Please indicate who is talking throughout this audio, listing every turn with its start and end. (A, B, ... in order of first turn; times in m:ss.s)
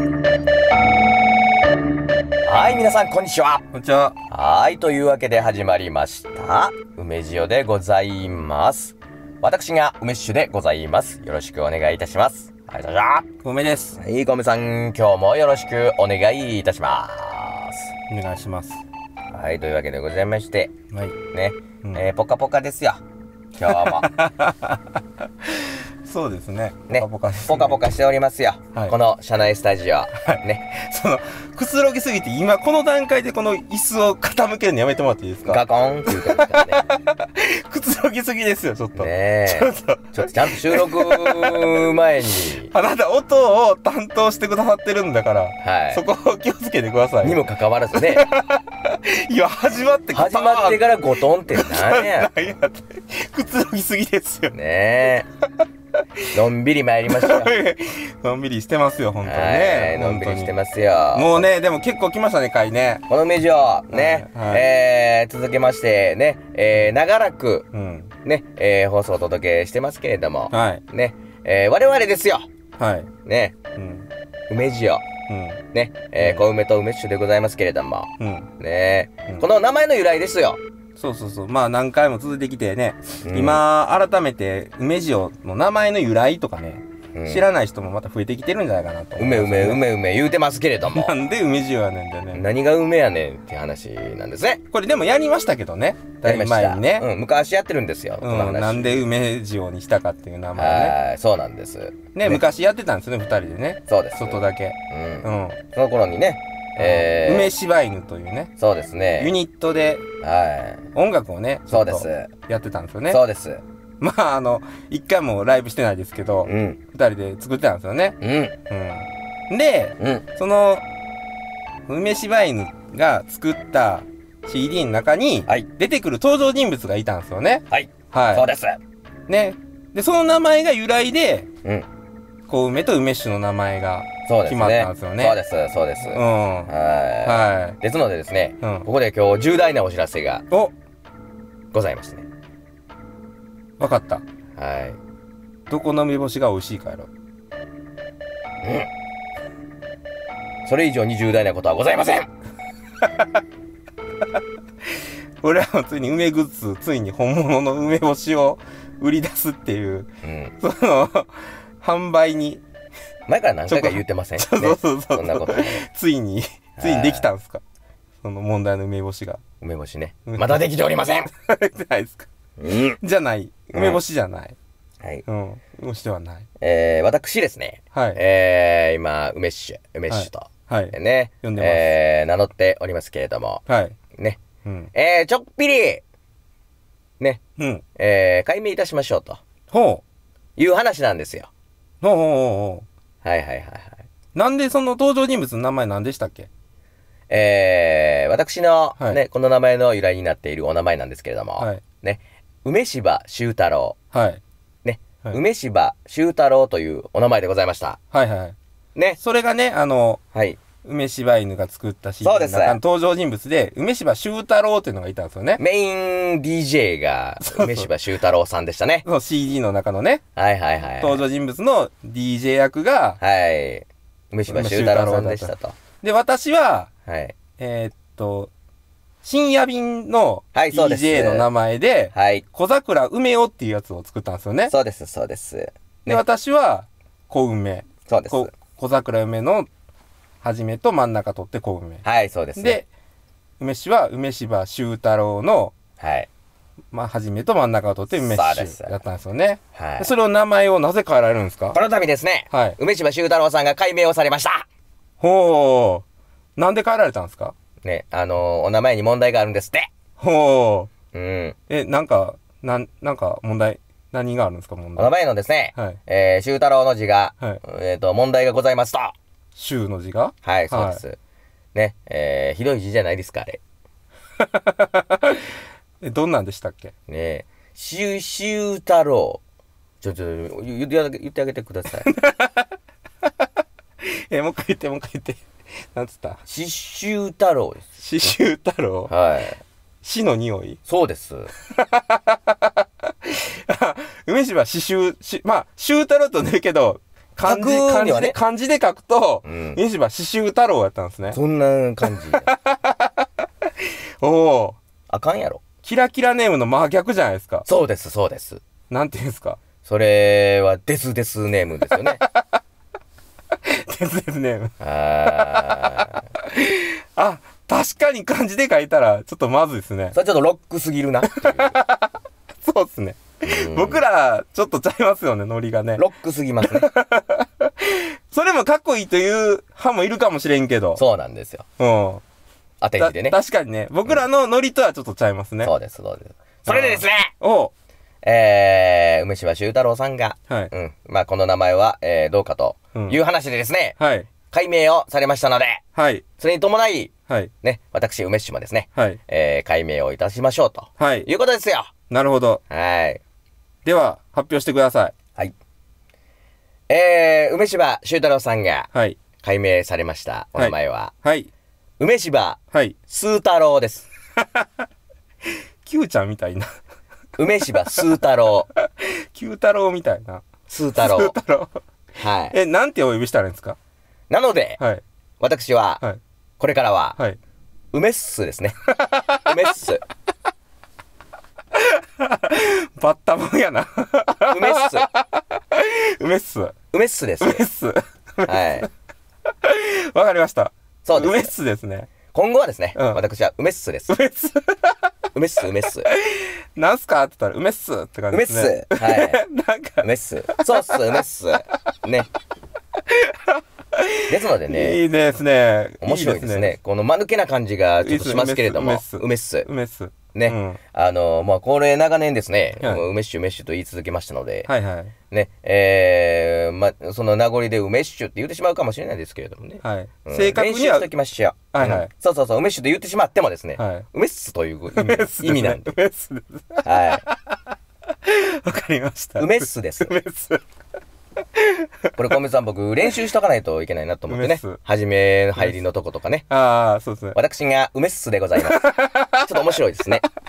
0:02.4-0:03.6 A
0:03.7-0:04.1 B
0:04.3-0:13.3 A
0:13.4-0:14.0 B
0:14.0-0:17.9 A
0:18.1-0:18.8 B
0:19.3-0:20.7 A
0:20.9-0:21.2 B
0:21.3-0:23.0 A
0:23.6-0:24.1 A
0:23.7-0:24.8 B
0:25.6-0:27.8 B
0:26.9-0:30.6 A
0:30.2-0:41.7 B
0:35.4-0:36.8 A
0:38.9-0:42.7 A
0:42.6-0:54.5 B
0:45.6-0:46.0 A
0:47.2-0:48.3 A
0:50.1-0:52.3 A
0:54.5-0:55.3 A
0:56.3-0:57.5 A
0:57.1-1:00.5 B
0:59.2-1:01.5 A
1:01.1-1:03.0 B
1:03.1-1:07.7 A
1:03.9-1:04.6 B
1:07.7-1:08.1 B
1:08.2-1:12.5 A
1:10.5-1:10.8 B
1:12.8-1:13.1 B
1:13.2-1:13.6 A
1:13.8-1:14.1 B
1:14.5-1:15.0 A
1:15.3-1:15.6 B
1:15.7-1:20.6 A
1:16.2-1:16.4 B
1:18.2-1:18.5 B
1:21.0-1:29.8 B
1:23.2-1:23.6 A
1:27.1-1:27.5 A
1:29.2-1:31.1 A
1:30.8-1:32.4 B
1:32.3-1:34.6 A
1:34.7-1:37.0 B
1:36.2-1:39.0 A
1:38.2-1:40.9 B
1:40.6-1:42.4 A
1:42.1-1:45.6 B
1:43.9-1:47.5 A
1:46.8-1:48.5 B
1:48.6-1:49.4 A
1:49.2-1:50.0 B
1:50.2-1:50.8 A
1:50.9-1:53.2 B
1:51.7-1:52.3 A
1:53.1-1:53.6 A
1:54.0-1:58.2 B
1:56.4-1:56.8 A
1:58.2-1:58.5 A
1:58.7-2:00.8 B
2:00.0-2:00.3 A
2:01.9-2:08.4 B
2:07.7-2:08.8 A
2:09.3-2:11.5 B
2:12.5-2:15.4 B
2:14.3-2:20.4 A
2:16.0-2:16.7 B
2:17.2-2:17.8 B
2:18.6-2:18.9 B
2:21.7-2:22.2 A
2:23.8-2:24.2 B
2:24.6-2:25.0 A
2:25.7-2:27.1 B
2:28.6-2:28.9 A
2:30.6-2:32.3 A
2:35.4-2:42.6 B
2:40.2-2:40.6 A
2:43.3-2:45.8 A
2:43.7-2:47.6 B
2:46.8-2:47.3 A
2:48.2-2:49.4 B
2:49.6-2:51.3 A
2:50.3-2:50.6 B
2:51.3-2:52.3 B
2:52.6-2:53.0 A
2:53.0-2:54.6 B
2:53.7-2:54.0 A
2:55.2-2:56.5 B
2:56.6-3:03.6 A
2:57.9-2:58.2 B
3:00.1-3:01.9 B
3:03.7-3:04.0 B
3:04.6-3:04.9 B
3:04.9-3:06.0 A
3:07.6-3:07.8 B
3:08.0-3:09.4 A
3:09.7-3:10.0 B
3:10.6-3:11.5 A
3:12.0-3:12.8 B
3:13.2-3:14.0 A
3:14.3-3:16.5 B
3:17.3-3:24.0 A
3:24.1-3:24.4 B
3:24.8-3:28.0 A
3:28.1-3:28.6 B
3:28.9-3:29.2 A
3:29.2-3:30.2 B
3:30.3-3:30.6 A
3:30.8-3:35.6 B
3:32.2-3:32.8 A
3:35.6-3:39.0 A
3:37.4-3:37.9 B
3:39.0-3:40.2 B
3:40.4-3:41.2 A
3:41.0-3:43.2 B
3:43.2-3:45.8 A
3:44.5-3:46.9 B
3:47.0-3:47.4 A
3:47.6-3:48.5 B
3:49.2-3:54.7 B
3:50.5-3:51.5 A
3:52.1-3:52.4 A
3:54.7-3:56.2 A
3:56.1-3:59.7 B
3:58.0-3:58.5 A
4:00.4-4:02.0 B
4:02.0-4:02.8 A
4:02.6-4:02.9 B
4:03.6-4:05.7 B
4:06.0-4:06.3 A
4:06.9-4:11.8 B
4:08.1-4:09.0 A
4:09.7-4:10.1 A
4:11.7-4:14.6 A
4:12.5-4:12.8 B
4:15.2-4:16.0 B
4:16.6-4:17.5 B
4:17.8-4:19.9 A
4:20.2-4:20.9 B
4:21.1-4:21.6 A
4:21.7-4:25.1 B
4:25.0-4:29.1 A
4:25.7-4:26.0 B
4:29.6-4:31.0 B
4:30.4-4:31.2 A
4:31.7-4:33.6 A
4:34.4-4:35.4 B
4:36.0-4:36.9 B
4:37.1-4:39.4 A
4:40.0-4:42.1 A
4:42.0-4:42.7 B
4:44.0-4:46.4 B
4:46.4-4:47.8 A
4:48.0-4:49.1 B
4:49.1-4:49.6 A
4:50.0-4:50.8 B
4:50.9-4:51.5 A
4:51.7-5:01.4 B
4:57.4-4:58.4 A
4:59.4-4:59.8 A
5:01.3-5:02.5 A
5:02.1-5:03.2 B
5:04.2-5:04.8 B
5:05.1-5:05.6 A
5:05.8-5:07.6 B
5:07.6-5:08.6 A
5:08.9-5:09.6 B
5:09.8-5:12.2 A
5:12.0-5:12.4 B
5:13.7-5:14.7 B
5:14.8-5:16.2 A
5:16.4-5:20.2 B
5:20.1-5:21.8 A
5:21.3-5:22.1 B
5:22.6-5:26.0 B
5:23.4-5:24.0 A
5:26.0-5:26.9 A
5:26.7-5:31.0 B
5:31.0-5:31.6 A
5:31.8-5:32.2 B
5:32.8-5:33.4 A
5:33.0-5:35.7 B
5:35.6-5:37.3 A
5:36.7-5:37.7 B
5:38.2-5:45.8 A
5:44.0-5:44.3 B
5:45.9-5:46.2 B
5:46.4-5:51.9 A
5:48.9-5:49.2 B
5:51.0-5:51.3 B
5:52.1-5:52.6 B
5:52.7-5:53.2 A
5:53.8-5:55.1 B
5:56.9-5:58.9 A
5:58.9-5:59.2 B
5:59.4-6:01.1 A
6:00.5-6:01.5 B
6:02.0-6:04.1 A
6:05.8-6:06.7 B
6:07.4-6:08.7 A
6:09.0-6:10.4 B
6:10.7-6:11.4 A
6:11.0-6:11.8 B
6:12.2-6:12.6 A
6:12.5-6:13.8 B
6:14.3-6:14.8 A
6:15.4-6:16.0 A
6:16.6-6:17.2 A
6:17.9-6:18.8 A
6:18.9-6:19.7 B
6:19.3-6:20.0 A
6:21.7-6:26.7 B
6:24.5-6:25.1 A
6:26.9-6:27.6 A
6:27.4-6:28.9 B
6:28.4-6:28.9 A
6:29.6-6:32.1 B
6:31.0-6:31.5 A
6:32.3-6:34.1 A
6:32.9-6:33.2 B
6:34.1-6:35.0 B
6:35.3-6:36.1 A
6:36.0-6:41.2 B
6:38.3-6:39.4 A
6:40.0-6:42.3 A
6:43.1-6:46.8 B
6:44.3-6:45.0 A
6:46.0-6:49.7 A
6:48.0-6:50.8 B
6:50.3-6:54.7 A
6:54.6-6:55.1 B
6:55.3-7:06.0 A
6:59.8-7:01.1 B
7:01.7-7:02.1 B
7:03.8-7:04.1 B
7:04.9-7:07.6 B
7:06.8-7:07.2 A
7:08.2-7:10.6 B
7:09.4-7:10.2 A
7:11.6-7:12.2 B
7:12.2-7:16.5 A
7:14.3-7:14.8 B
7:16.5-7:17.4 B
7:17.3-7:18.8 A
7:18.6-7:19.6 B
7:19.4-7:20.2 A